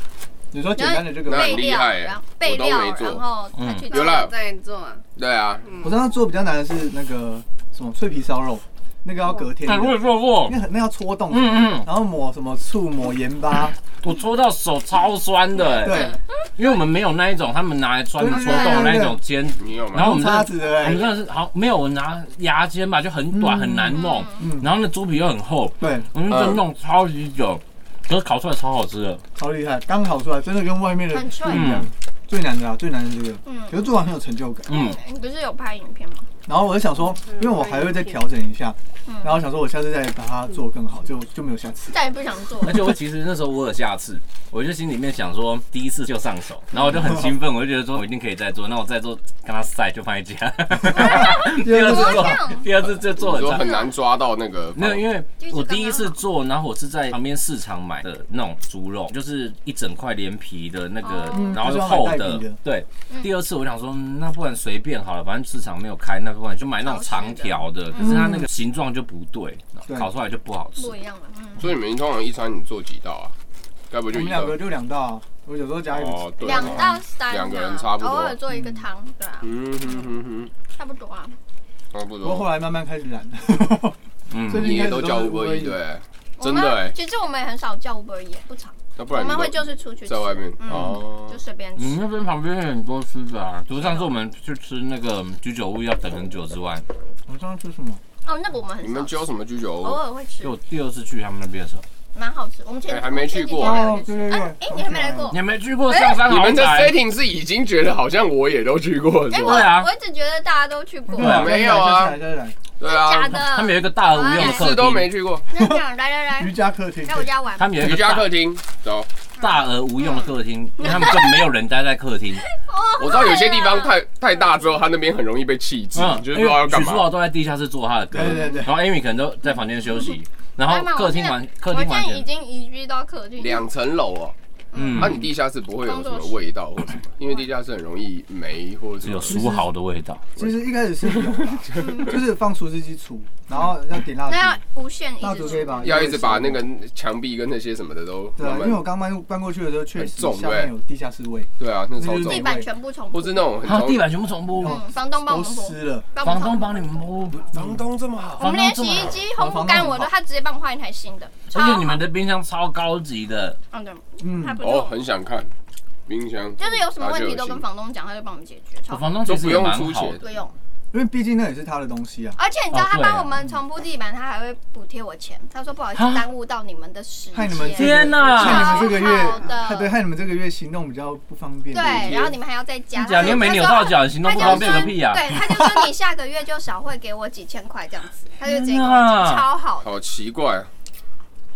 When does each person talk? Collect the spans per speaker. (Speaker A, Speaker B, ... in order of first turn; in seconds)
Speaker A: 0.5-1.7, 5.8-13.8, 15.8-16.2, 18.2-19.2, 19.9-21.1, 23.3-24.7, 25.8-26.1, 29.4-34.8, 36.5-42.0, 50.9-52.5, 61.3-62.6, 68.0-68.5, 74.1-77.0, 78.5-78.8, 82.2-84.0, 84.5-85.8, 97.3-98.0, 103.6-105.4, 111.1-112.6, 115.5-115.8, 116.4-117.3, 128.1-128.8, 139.3-139.6, 140.4-144.6, 145.2-146.6, 148.4-152.7, 154.6-156.1, 157.4-157.8, 159.3-160.1, 164.2-164.6, 170.9-172.4, 177.3-182.3, 185.3-185.9
Speaker B: 0.8-4.3, 15.8-16.2, 18.3-19.0, 23.9-24.5, 31.1-31.8, 33.5-33.9, 34.7-36.3, 39.1-39.4, 41.9-42.9, 51.0-52.7, 53.4-54.0, 55.4-56.2, 61.0-61.7, 66.8-68.3, 70.8-71.7, 76.4-80.1, 80.8-81.4, 86.4-92.0, 93.7-94.1, 98.2-100.5, 102.1-105.4, 105.9-106.2, 109.3-111.5, 112.8-114.8, 115.5-117.9, 119.4-121.4, 122.5-124.0, 128.2-128.7, 130.6-133.7, 134.7-135.3, 135.8-136.5, 141.8-142.1, 144.3-146.1, 152.2-153.5, 154.6-157.0, 158.4-162.0, 163.7-165.0, 166.6-169.5, 170.2-170.6, 172.4-179.9, 181.7-189.9
Speaker C: 1.3-3.2, 3.9-4.3, 5.2-5.7, 19.6-20.3, 26.3-26.6, 53.2-55.0, 71.6-73.3, 73.9-74.6, 75.9-78.4, 79.4-80.5, 81.9-82.5, 84.5-87.0, 89.0-91.4, 98.8-100.0, 102.9-103.9, 106.2-109.7, 111.2-112.2, 112.8-113.4, 114.3-115.5, 117.8-119.1, 123.0-127.1, 133.4-134.3, 135.0-139.5, 140.4-142.2, 145.8-148.8, 150.0-150.7, 151.6-154.1, 157.5-158.4, 164.6-165.5, 166.1-167.6, 169.3-170.2, 184.4-184.8, 189.8-190.7
Speaker D: 3.5-3.9, 9.6-10.6, 11.3-11.9, 14.0-29.2, 31.5-31.9, 34.7-35.0, 42.6-53.7, 54.8-71.0, 84.3-84.9, 91.8-96.9, 100.4-101.8, 105.3-107.0, 109.4-109.9, 111.2-111.5, 113.3-115.1, 117.6-118.3, 119.4-122.5, 125.9-132.3, 134.7-135.2, 139.0-140.2, 153.6-154.8, 156.2-157.5, 158.4-159.2, 161.5-163.6, 168.9-170.2, 172.7-173.3, 175.9-176.3, 177.7-178.9, 182.9-185.3, 188.4-189.5
Speaker E: 3.9-5.0, 5.6-6.0, 37.3-38.2